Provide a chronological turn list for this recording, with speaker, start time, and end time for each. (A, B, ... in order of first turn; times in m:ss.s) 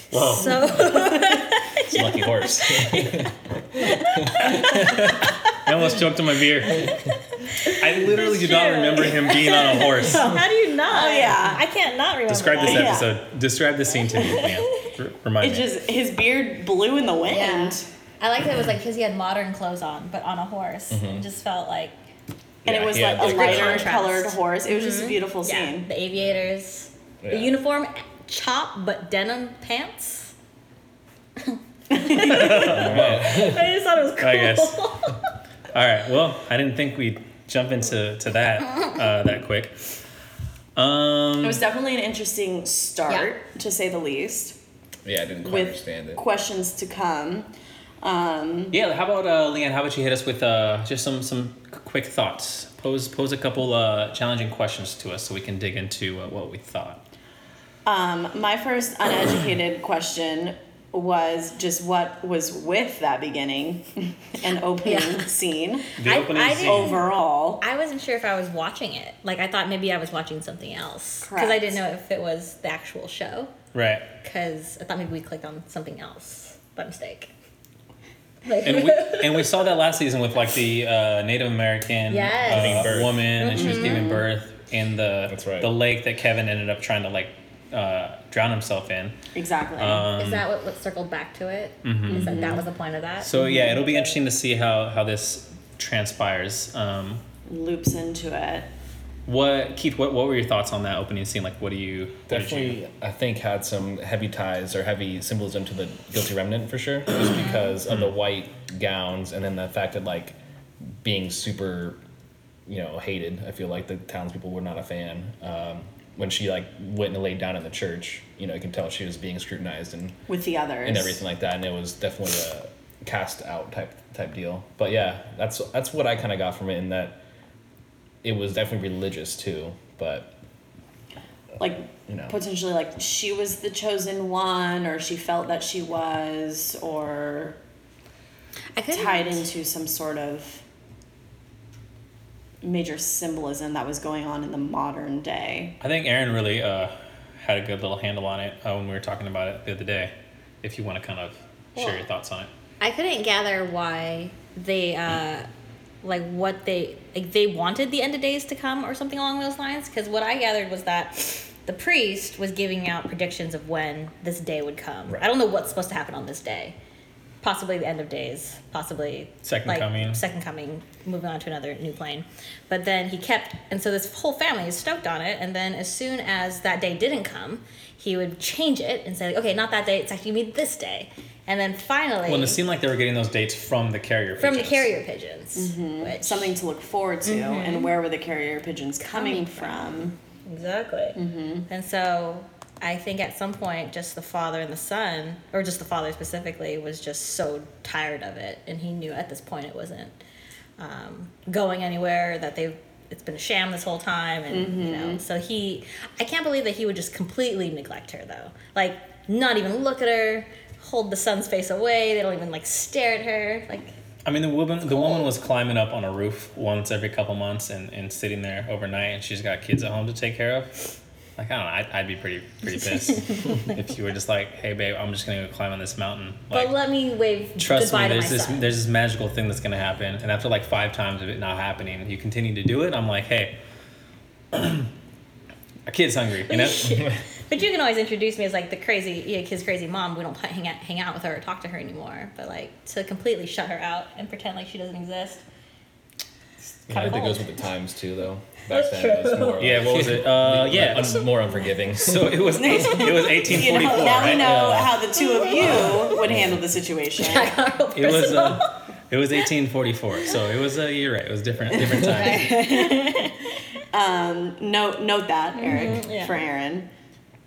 0:00.1-0:00.7 A
0:00.1-0:05.2 B
0:00.8-0:01.2 C
0:01.9-0:05.1 D
0:04.7-0:07.0 A
0:06.8-0:13.0 B
0:07.6-0:10.4 A
0:10.9-0:11.6 C
0:12.3-0:15.7 A
0:12.6-0:13.1 C
0:15.4-0:17.9 C
0:17.3-0:21.9 B
0:20.9-0:21.2 D
0:22.6-0:24.0 D
0:22.6-0:25.9 C
0:23.2-0:30.3 B
0:27.2-0:27.6 D
0:31.5-0:35.2 B
0:31.9-0:32.8 C
0:32.1-0:33.5 A
0:32.5-0:33.7 D
0:34.2-0:34.9 A
0:35.7-0:39.8 A
0:40.8-0:41.6 A
0:41.4-0:44.6 C
0:45.0-0:46.2 D
0:45.4-0:47.5 C
0:48.0-0:48.8 C
0:48.7-0:57.0 A
0:57.9-1:05.9 C
1:04.8-1:05.3 B
1:06.0-1:07.0 A
1:06.0-1:07.1 B
1:06.6-1:07.6 C
1:07.6-1:13.5 B
1:11.2-1:11.8 C
1:13.7-1:14.1 A
1:14.2-1:17.3 B
1:18.4-1:19.5 B
1:18.6-1:29.2 A
1:22.1-1:24.1 B
1:22.4-1:23.5 D
1:23.5-1:24.3 C
1:25.3-1:25.7 D
1:29.3-1:30.1 C
1:29.8-1:30.5 A
1:30.2-1:34.2 B
1:31.8-1:32.6 A
1:32.1-1:32.6 C
1:33.2-1:37.2 A
1:37.5-1:38.7 C
1:39.3-1:42.8 A
1:42.3-1:50.4 D
1:51.0-1:52.0 D
1:52.7-2:00.2 D
2:00.3-2:01.2 C
2:00.8-2:07.2 D
2:08.2-2:10.3 D
2:11.6-2:17.6 C
2:12.1-2:12.4 D
2:18.8-2:19.4 B
2:18.9-2:20.6 C
2:22.6-2:25.8 C
2:25.8-2:32.5 A
2:32.8-2:35.5 B
2:36.0-2:46.8 B
2:47.4-3:02.6 B
2:49.4-2:50.2 A
3:02.3-3:04.9 A
3:04.4-3:06.5 B
3:05.6-3:10.2 C
3:07.3-3:07.9 B
3:09.0-3:09.8 B
3:10.5-3:20.2 B
3:11.2-3:11.7 C
3:20.8-3:33.9 B
3:24.5-3:25.2 C
3:34.2-3:40.8 A
3:41.4-3:46.8 A
3:46.5-3:48.7 B
3:47.6-3:53.6 A
3:54.5-3:54.9 A
3:55.9-3:57.0 A
3:56.5-4:05.4 B
4:06.9-4:07.5 B
4:06.9-4:12.4 D
4:08.7-4:09.6 B
4:09.6-4:11.4 A
4:12.0-4:15.0 A
4:12.5-4:17.6 C
4:14.3-4:15.0 D
4:15.3-4:16.0 B
4:16.2-4:16.5 D
4:17.2-4:18.8 B
4:17.9-4:22.6 A
4:21.8-4:23.3 C
4:22.1-4:23.5 B
4:23.9-4:26.9 C
4:25.6-4:26.3 B